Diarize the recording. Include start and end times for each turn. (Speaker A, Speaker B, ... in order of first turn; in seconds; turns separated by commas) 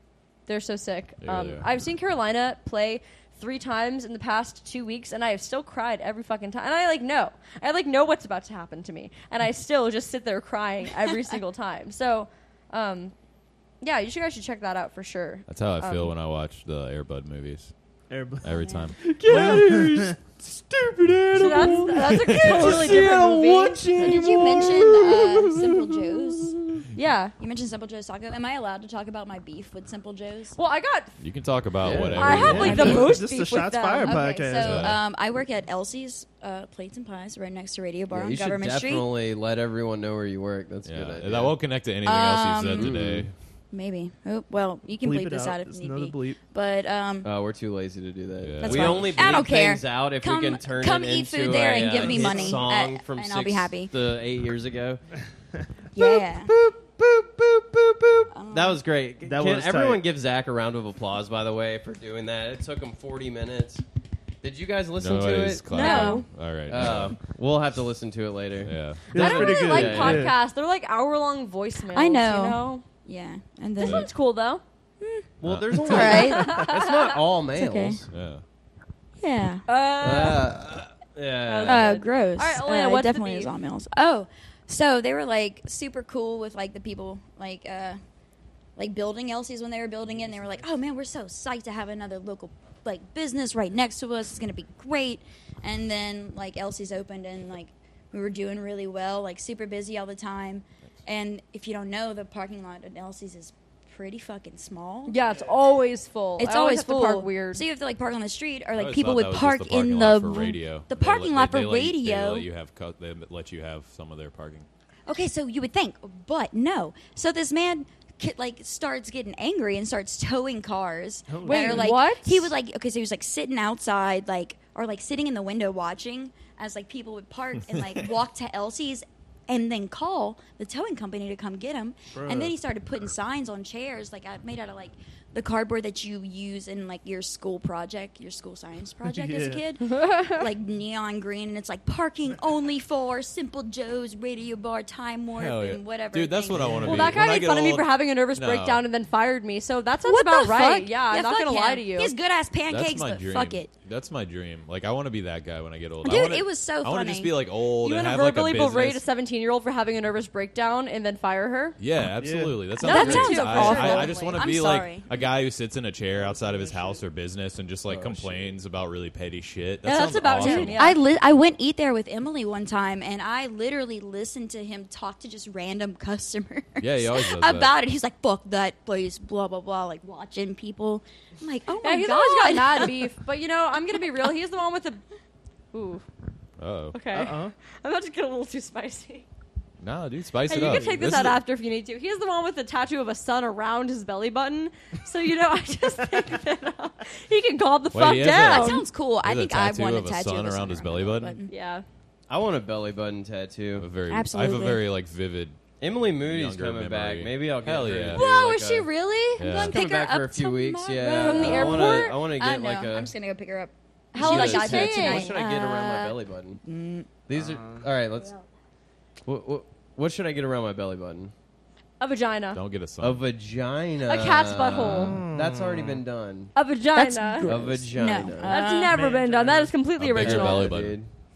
Speaker A: 0.5-13.1, Speaker B: 1.2-1.7, Speaker A: 13.8-16.1, Speaker B: 15.5-17.7, Speaker C: 18.1-18.5, Speaker B: 18.4-19.6, Speaker D: 18.5-18.9, Speaker E: 19.1-26.9, Speaker C: 19.2-20.2, Speaker A: 21.3-23.9, Speaker C: 22.4-23.2, Speaker D: 24.0-26.6, Speaker C: 24.1-24.8, Speaker A: 26.9-27.3, Speaker D: 27.4-30.6, Speaker A: 30.6-31.1, Speaker B: 31.2-33.0, Speaker E: 31.8-33.1, Speaker A: 32.2-34.3, Speaker C: 32.3-35.0, Speaker D: 32.4-33.1, Speaker D: 34.0-39.1, Speaker B: 34.5-35.0, Speaker E: 38.1-41.5, Speaker B: 40.9-43.3, Speaker D: 42.0-43.0, Speaker E: 42.7-43.3, Speaker D: 43.7-47.3, Speaker C: 45.0-46.4, Speaker E: 47.2-55.0, Speaker B: 48.4-49.4, Speaker D: 48.6-53.9, Speaker C: 51.9-52.6, Speaker D: 56.0-56.5, Speaker E: 56.0-63.8, Speaker D: 58.3-58.8, Speaker C: 59.2-60.0, Speaker E: 64.4-65.6, Speaker B: 65.0-67.2, Speaker A: 65.7-66.3, Speaker D: 65.7-66.3, Speaker E: 66.7-70.3, Speaker B: 68.6-69.1, Speaker C: 69.1-70.3, Speaker A: 69.1-72.8, Speaker D: 71.9-74.1, Speaker A: 73.8-74.6, Speaker B: 73.8-74.1, Speaker D: 75.0-75.3, Speaker E: 75.4-78.1, Speaker B: 75.4-76.2, Speaker D: 75.8-76.7, Speaker A: 75.9-77.0, Speaker D: 77.5-78.0, Speaker B: 78.1-78.4, Speaker D: 79.2-79.7, Speaker A: 79.7-80.5, Speaker E: 80.0-82.0, Speaker A: 81.5-83.5, Speaker D: 81.6-88.0, Speaker D: 88.8-105.2, Speaker A: 105.1-107.6, Speaker D: 106.4-112.5, Speaker B: 108.8-114.7, Speaker D: 115.1-147.1, Speaker C: 121.3-121.9, Speaker A: 121.4-122.5, Speaker C: 132.1-132.5, Speaker C: 139.1-139.6, Speaker A: 139.9-140.4, Speaker B: 145.3-148.8, Speaker C: 146.6-147.2, Speaker A: 146.8-152.1, Speaker D: 150.0-153.7, Speaker B: 152.7-159.0, Speaker D: 156.0-157.3, Speaker A: 157.8-161.8, Speaker B: 161.8-170.8, Speaker C: 162.2-162.6, Speaker D: 162.8-165.1, Speaker A: 162.8-164.4, Speaker C: 166.2-166.9, Speaker E: 167.9-168.6, Speaker A: 169.8-171.0, Speaker D: 170.4-183.1, Speaker B: 176.8-177.7, Speaker A: 181.8-185.0, Speaker A: 185.7-186.1, Speaker B: 186.6-187.0, Speaker A: 186.9-189.2, Speaker C: 187.1-187.5, Speaker B: 189.8-191.4, Speaker A: 190.5-198.9, Speaker B: 197.9-201.4, Speaker D: 198.3-201.5, Speaker A: 201.5-201.8, Speaker E: 202.3-203.9, Speaker B: 203.8-208.2, Speaker D: 204.1-204.8, Speaker E: 205.8-208.9, Speaker A: 208.1-209.5, Speaker B: 209.4-209.8, Speaker D: 209.4-217.1, Speaker E: 209.6-213.1, Speaker A: 211.1-212.2, Speaker A: 214.1-215.3, Speaker E: 214.2-216.6, Speaker E: 217.3-218.4, Speaker C: 217.4-217.8, Speaker E: 219.2-221.3, Speaker A: 222.0-222.6, Speaker B: 222.5-223.2, Speaker E: 223.0-226.5, Speaker A: 224.1-225.2, Speaker C: 225.0-226.0, Speaker A: 226.6-227.6, Speaker D: 226.9-229.0, Speaker E: 227.4-228.6, Speaker A: 228.4-230.7, Speaker C: 228.9-229.7, Speaker B: 230.0-231.0, Speaker E: 230.2-231.1